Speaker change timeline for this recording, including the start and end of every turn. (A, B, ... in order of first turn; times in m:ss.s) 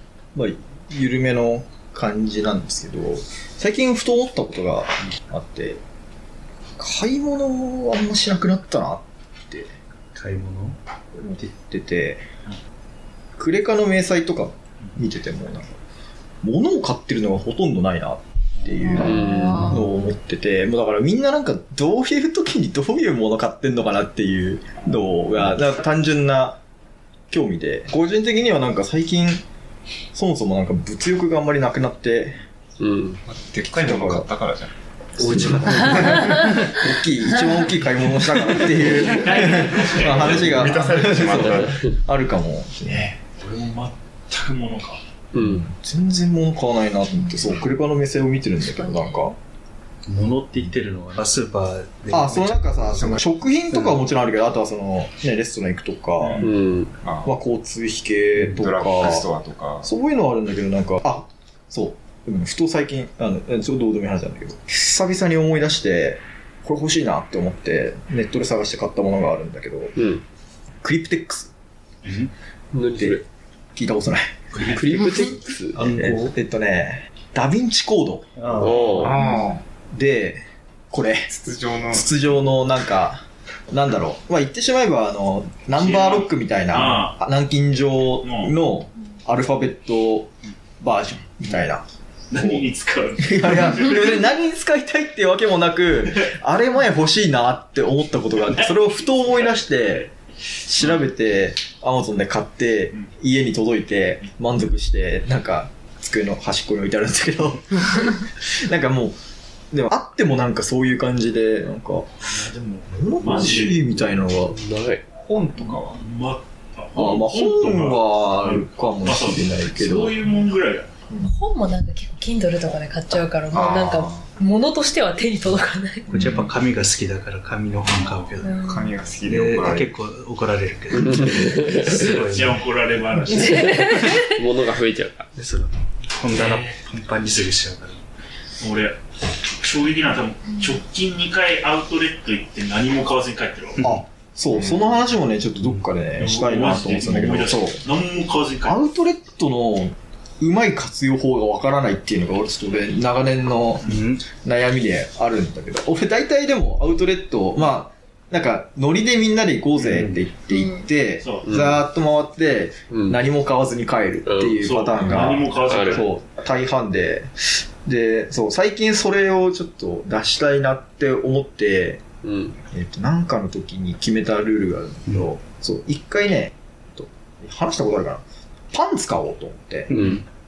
0:00.4-0:05.8 A
0:06.8-0:09.7 A
0:10.1-0:10.8 B
0:11.1-0:12.2 A
0:13.4-0:15.8 A
0:16.4-0:26.6 A
0:18.6-0:19.0 C
0:19.0-0:19.8 D
0:19.0-0:19.8 E
0:27.3-0:29.4 A
0:30.1-0:32.4 A
0:32.8-0:33.2 D
0:33.3-0:36.4 F
0:33.7-0:34.3 A
0:35.2-0:36.6 B
0:36.2-0:43.2 A
0:38.8-0:40.6 C
0:40.0-0:41.8 F
0:41.4-0:41.9 D
0:43.4-0:45.0 C
0:45.3-0:45.6 D
0:45.4-0:49.4 A
0:48.8-0:49.2 E
0:50.1-0:53.0 B
0:52.1-0:56.5 A
0:53.0-0:53.2 F
0:53.7-0:54.1 B
0:56.4-0:57.0 D
0:57.0-0:57.4 F
0:57.2-0:59.3 A
0:58.5-0:59.9 F
0:59.8-1:10.0 A
1:10.0-1:10.2 D
1:10.8-1:11.5 A
1:12.7-1:13.2 D
1:13.0-1:13.2 A
1:13.8-1:14.4 A
1:14.6-1:16.1 D
1:15.8-1:16.3 B
1:16.0-1:18.7 A
1:18.4-1:19.2 B
1:18.6-1:19.2 D
1:18.9-1:19.6 F
1:19.7-1:21.3 A
1:21.3-1:22.1 F
1:21.9-1:40.1 A
1:25.8-1:27.2 C
1:28.2-1:28.5 C
1:32.3-1:34.2 C
1:40.6-1:49.2 A
1:49.7-1:52.2 A
1:52.2-1:53.9 C
1:52.9-1:54.6 A
1:54.4-1:55.0 D
1:55.1-1:56.0 F
1:55.8-2:00.9 C
1:57.0-2:00.2 A
2:01.1-2:01.4 A
2:01.2-2:06.2 E
2:03.5-2:04.3 F
2:06.1-2:06.5 A
2:06.2-2:08.5 B
2:07.9-2:08.3 C
2:08.4-2:08.9 E
2:08.6-2:10.0 F
2:09.2-2:12.6 B
2:10.9-2:12.2 D
2:12.1-2:13.8 C
2:13.4-2:14.4 E
2:13.4-2:15.3 D
2:15.4-2:18.0 B
2:16.3-2:16.8 C
2:18.6-2:19.0 C
2:19.6-2:23.8 C
2:23.8-2:27.9 A
2:25.6-2:25.9 B
2:26.2-2:28.8 C
2:28.6-2:52.0 A
2:33.9-2:34.2 B
2:40.5-2:40.8 E
2:41.2-2:41.5 C
2:41.5-2:41.8 D
2:42.9-2:43.2 D
2:44.2-2:44.6 D
2:44.6-2:46.1 C
2:45.1-2:46.1 D
2:52.2-2:52.6 D
2:52.7-3:00.0 A
2:59.9-3:00.2 B
2:59.9-3:00.2 D